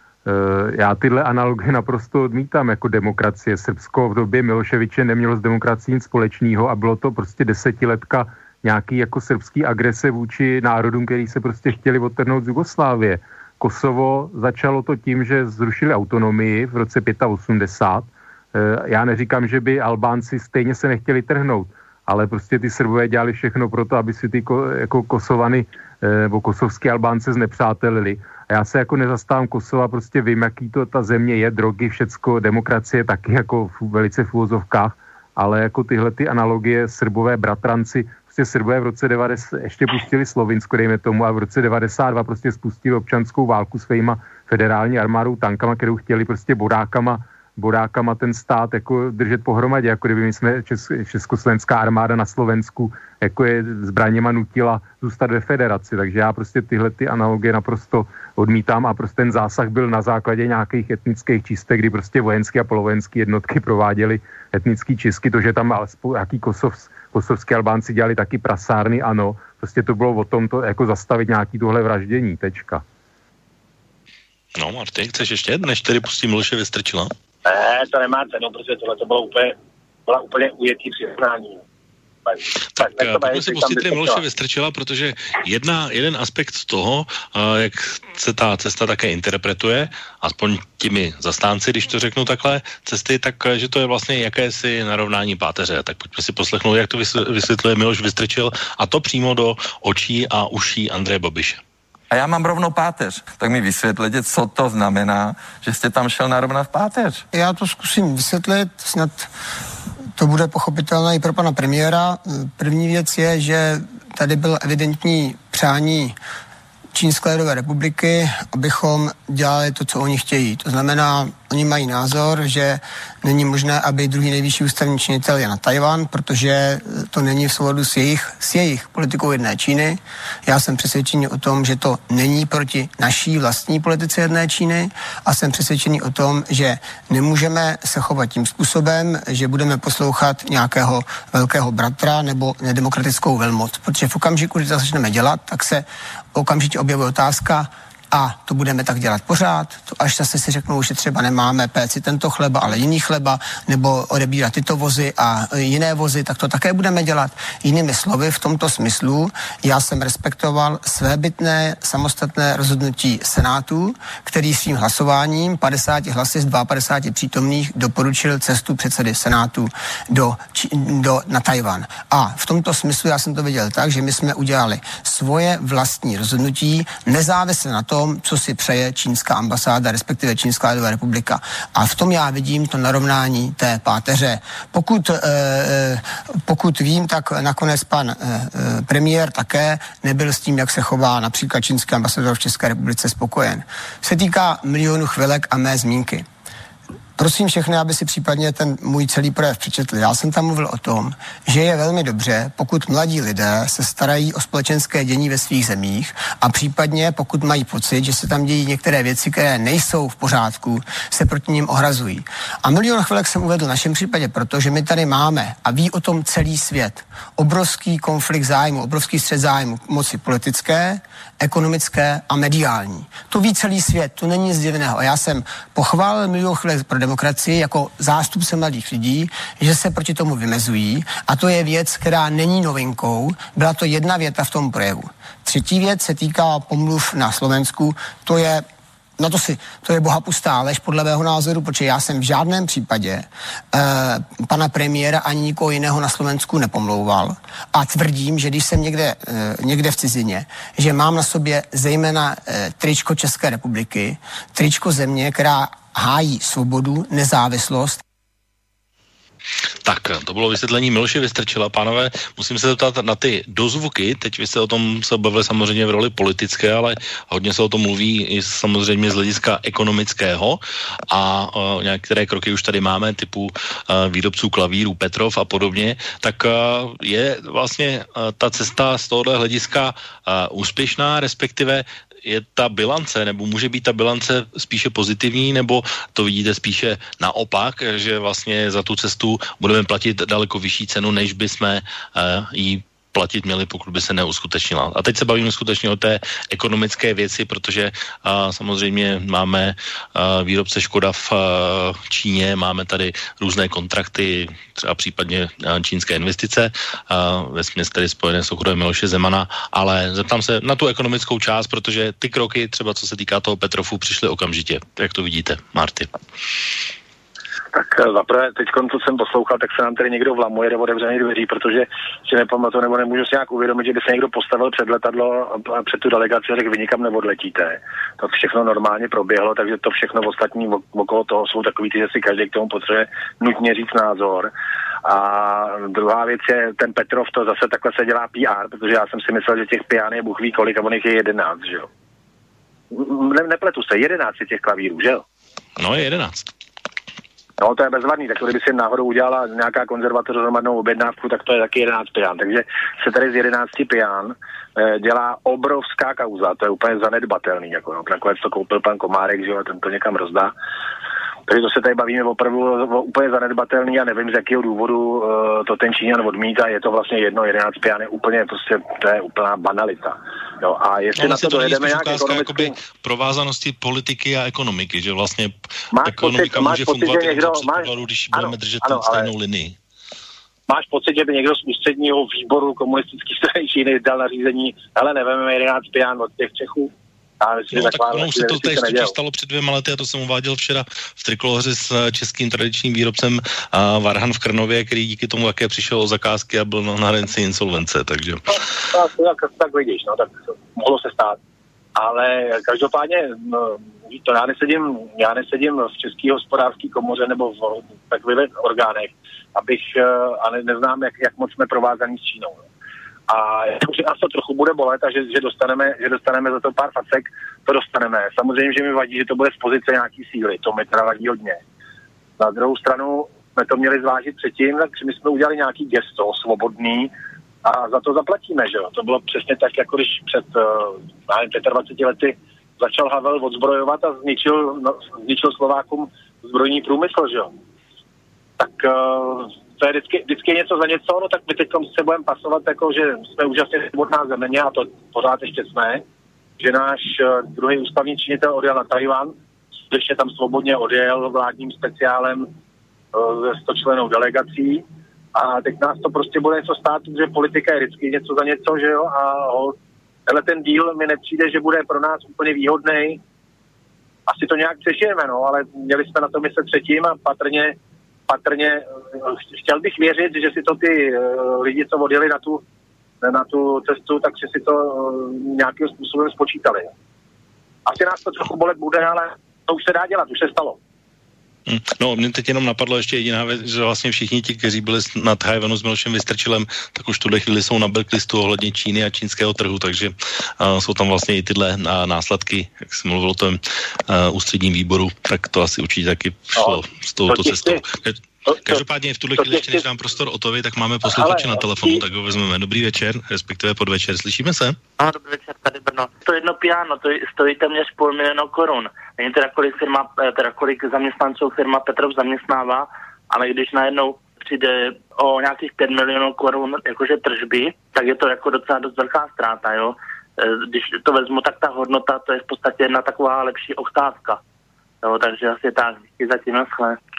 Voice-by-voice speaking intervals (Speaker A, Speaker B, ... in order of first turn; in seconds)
Speaker A: 0.2-72.8
Speaker B: 74.5-77.1, 82.7-101.6, 259.8-316.1, 345.8-346.5, 371.2-375.5, 376.0-379.8, 387.7-398.6, 481.7-504.8
Speaker C: 77.5-81.6, 82.2-84.2, 317.7-334.5, 335.0-341.9, 342.9-345.2, 347.6-360.5, 361.5-372.8, 375.9-379.3, 380.7-389.1, 398.5-401.4, 401.9-412.6, 413.3-421.6, 422.4-427.1, 427.6-437.5, 438.6-446.0, 446.6-449.3, 449.9-452.5, 453.1-454.8, 455.3-459.7, 460.3-463.2, 464.3-467.8, 468.3-472.6, 473.2-476.9, 477.9-480.8, 496.6-497.8, 498.5-498.8, 499.4-499.8, 501.1-502.0
Speaker D: 102.1-107.2
Speaker E: 107.3-109.3, 110.2-116.2, 116.9-196.2, 197.2-238.6, 239.2-258.0
Speaker F: 505.0-524.4, 525.0-527.0